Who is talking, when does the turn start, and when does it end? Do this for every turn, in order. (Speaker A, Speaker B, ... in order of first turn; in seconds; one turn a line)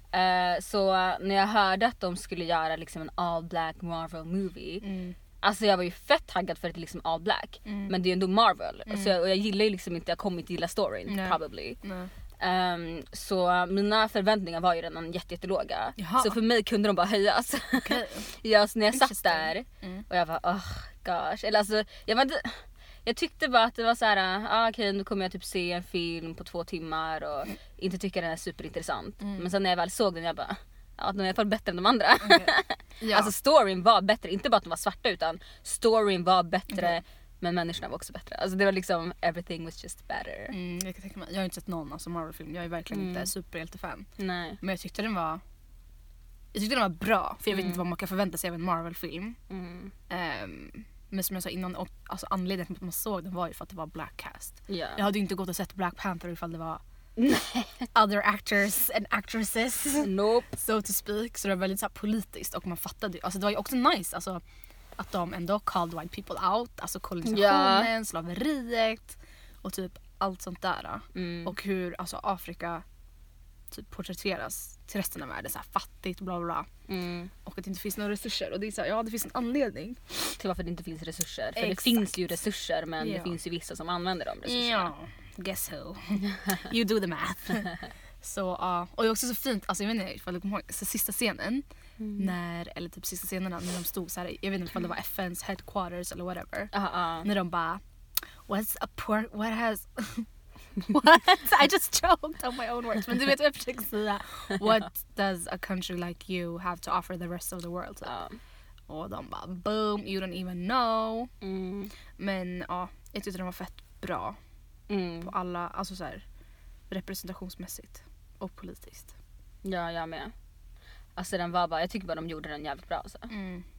Speaker A: 0.1-4.9
Speaker B: 4.8-5.2
Speaker A: 5.4-11.8
Speaker B: 7.7-7.9
Speaker B: 8.9-9.2
Speaker B: 11.1-12.1
Speaker A: 12.4-40.5
Speaker B: 16.0-16.4
Speaker B: 17.8-18.2
Speaker B: 18.9-20.0
Speaker B: 32.2-33.3
Speaker B: 36.7-37.0
Speaker B: 40.5-44.1
Speaker A: 42.9-43.3
Speaker A: 44.2-44.6
Speaker B: 44.6-45.4
Speaker B: 46.5-49.4
Speaker A: 47.5-47.8
Speaker A: 49.5-49.9
Speaker B: 50.1-56.8
Speaker A: 54.7-55.1
Speaker A: 57.2-57.9
Speaker B: 57.9-64.4
Speaker A: 60.0-60.5
Speaker B: 65.0-72.8
Speaker A: 67.2-67.9
Speaker A: 71.2-71.5
Speaker B: 73.7-76.7
Speaker A: 76.9-77.3
Speaker B: 77.5-80.4
Speaker A: 80.4-84.9
Speaker B: 81.6-82.3
Speaker B: 83.0-83.4
Speaker B: 84.4-91.7
Speaker A: 92.0-92.3
Speaker B: 92.2-96.7
Speaker A: 96.7-97.3
Speaker B: 97.2-97.8
Speaker B: 98.5-108.2
Speaker A: 108.0-108.4
Speaker B: 108.9-111.3
Speaker A: 111.4-111.9
Speaker B: 112.2-114.4
Speaker A: 114.9-115.3
Speaker B: 115.2-116.2
Speaker B: 116.9-119.1
Speaker A: 119.6-120.3
Speaker A: 121.2-123.3
Speaker B: 123.3-123.7